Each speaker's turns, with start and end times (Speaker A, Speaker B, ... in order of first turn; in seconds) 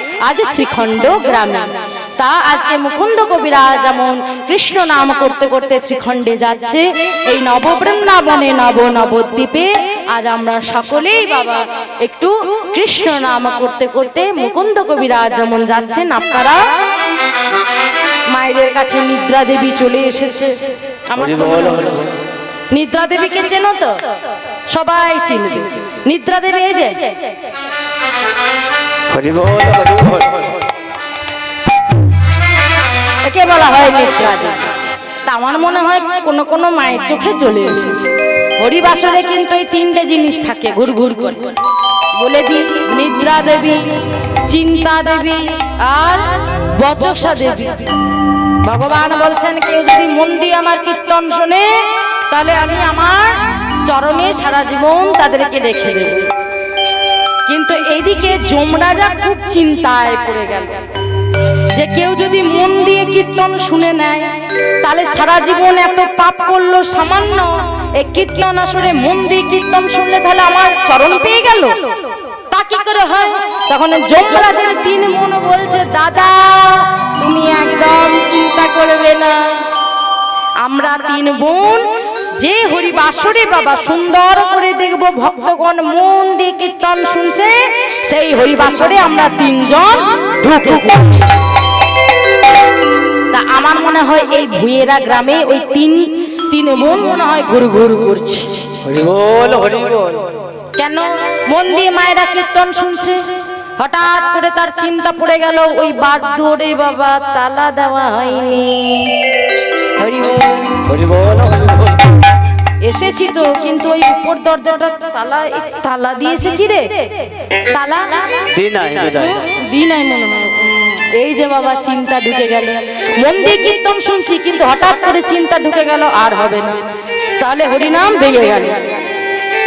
Speaker A: 0.2-16.6, 18.3-20.5, 21.1-21.9, 22.7-24.0, 24.7-27.2, 33.2-34.6, 35.2-38.0, 38.6-41.5, 42.2-47.9, 48.6-51.7, 52.3-56.3, 57.5-60.8, 61.7-64.3, 64.8-71.8, 72.5-79.6, 80.6-81.8, 82.4-87.5, 88.1-91.2, 93.3-98.6, 100.8-109.2, 110.0-110.8, 112.8-116.9, 117.7-118.3, 119.2-126.8, 127.4-128.9
Speaker B: 21.1-22.1, 29.1-30.5, 98.8-100.3, 110.8-112.0, 118.5-119.4